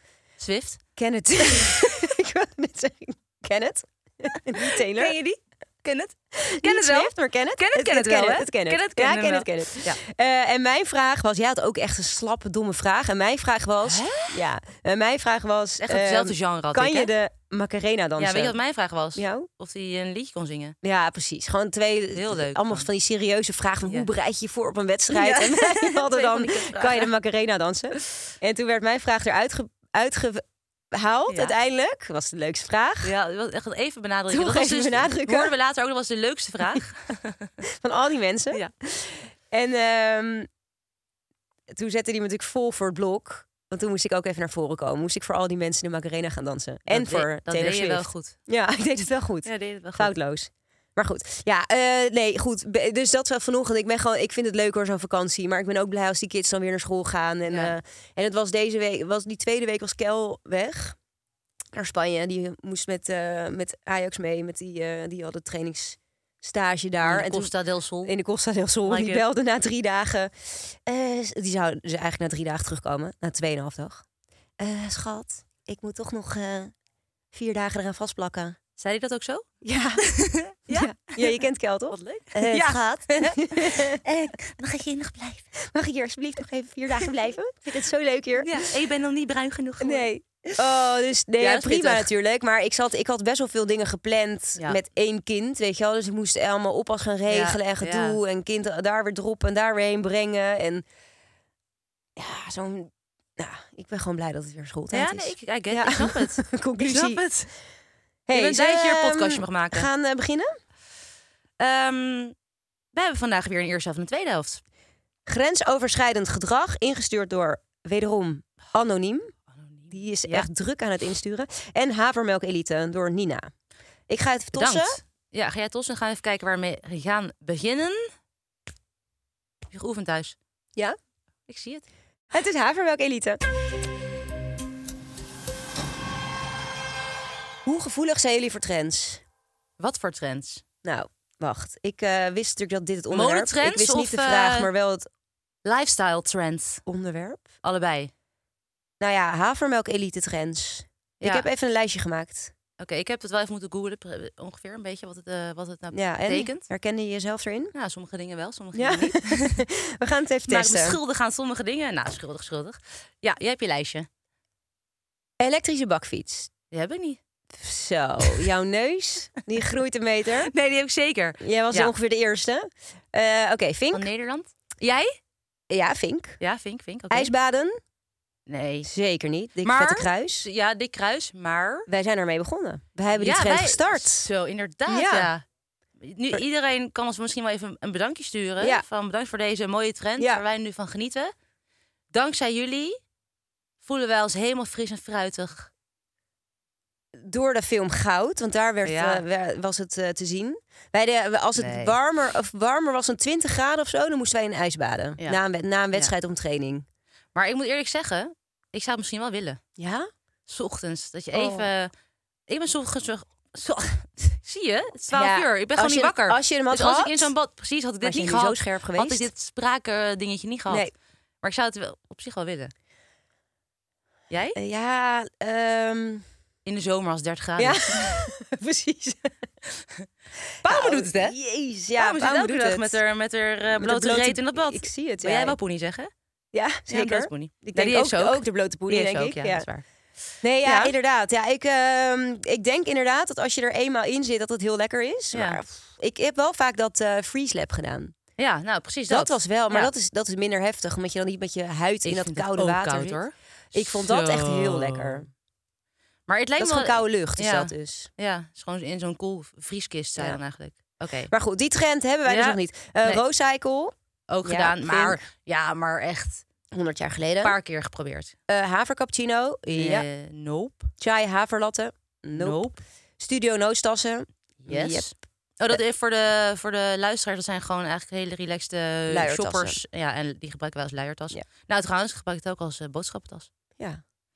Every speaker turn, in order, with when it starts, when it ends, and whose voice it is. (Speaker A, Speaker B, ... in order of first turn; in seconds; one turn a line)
Speaker A: 0.4-0.8
Speaker B: 1.0-5.1
Speaker A: 1.5-1.9
Speaker A: 4.6-10.0
Speaker B: 6.4-18.6
Speaker A: 13.8-14.4
Speaker A: 15.8-17.1
Speaker A: 18.2-20.7
Speaker B: 19.1-19.5
Speaker B: 20.8-33.1
Speaker A: 22.1-22.9
Speaker A: 25.1-27.1
Speaker A: 31.3-31.5
Speaker A: 33.0-37.5
Speaker B: 34.3-35.5
Speaker B: 37.8-40.5
Speaker B: 41.7-61.0
Speaker A: 46.9-48.4
Speaker A: 49.4-50.1
Speaker A: 57.5-57.7
Speaker B: 61.7-67.5
Speaker A: 67.0-68.1
Speaker B: 68.0-74.0
Speaker A: 68.8-69.2
Speaker B: 74.6-76.7
Speaker B: 77.3-78.6
Speaker A: 78.8-79.4
Speaker B: 79.6-80.0
Speaker A: 80.0-85.4
Speaker B: 80.7-84.0
Speaker B: 85.6-88.7
Speaker A: 88.4-90.7
Speaker B: 89.8-100.8
Speaker A: 91.4-92.1
Speaker A: 97.3-98.2
Speaker B: 102.2-107.2
Speaker A: 104.9-107.5
Speaker B: 108.3-110.5
Speaker A: 108.3-109.9
Speaker A: 111.6-112.3
Speaker A: 112.9-114.6
Speaker B: 115.3-119.3
Speaker A: 119.5-120.5
Speaker B: 119.9-123.5
Speaker B: 124.1-124.9
Speaker A: 124.5-128.1
Speaker A: 129.7-130.3
Speaker A: 131.5-131.8
Speaker B: 132.3-133.4
Speaker B: 137.6-139.2
Speaker A: 139.8-140.6
Speaker B: 140.8-145.1
Speaker A: 143.1-144.7
Speaker A: 145.6-146.8
Speaker B: 146.8-147.4
Speaker A: 147.6-148.1
Speaker B: 149.0-152.5
Speaker A: 151.2-151.4
Speaker A: 152.8-156.7
Speaker B: 155.9-157.7
Speaker A: 157.7-159.6
Speaker B: 158.8-161.0
Speaker A: 160.5-164.1
Speaker B: 165.4-166.5
Speaker A: 166.7-167.2
Speaker B: 167.6-170.5
Speaker A: 170.4-171.9
Speaker B: 171.4-174.1
Speaker A: 173.9-175.1
Speaker B: 175.7-176.4
Speaker A: 176.4-177.3
Speaker B: 177.1-177.8
Speaker A: 178.5-178.9
Speaker B: 178.8-180.4
Speaker A: 179.6-181.9
Speaker B: 181.9-184.3
Speaker A: 183.2-185.4
Speaker B: 184.9-185.3
Speaker A: 186.0-191.3
Speaker A: 192.1-193.0
Speaker A: 193.8-195.7
Speaker B: 197.2-206.8
Speaker A: 198.8-199.2
Speaker A: 201.6-201.9
Speaker A: 207.3-209.6
Speaker B: 209.8-210.1
Speaker A: 210.5-211.9
Speaker B: 211.3-211.7
Speaker A: 212.5-220.9
Speaker B: 215.1-217.3
Speaker B: 218.0-219.3
Speaker A: 221.4-222.7
Speaker A: 224.3-224.6
Speaker B: 224.6-226.2
Speaker A: 226.7-228.2
Speaker B: 227.6-229.3
Speaker B: 230.6-233.0
Speaker A: 230.7-231.3
Speaker A: 232.0-236.1
Speaker B: 233.7-235.6
Speaker B: 236.5-239.7
Speaker A: 236.9-239.8
Speaker B: 240.4-248.1
Speaker A: 240.6-240.9
Speaker A: 245.3-245.6
Speaker A: 248.4-249.9
Speaker B: 249.1-253.2
Speaker A: 252.0-255.2
Speaker B: 253.7-255.3
Speaker A: 256.3-261.3
Speaker B: 256.6-258.1
Speaker B: 261.3-263.9
Speaker A: 262.2-263.2
Speaker A: 264.3-266.4
Speaker B: 264.4-265.2
Speaker B: 266.7-267.6
Speaker A: 267.4-268.4
Speaker B: 268.5-270.1
Speaker A: 269.7-270.9
Speaker B: 271.0-272.6
Speaker A: 272.4-272.8
Speaker B: 273.2-275.1
Speaker A: 274.6-283.5
Speaker B: 279.1-279.8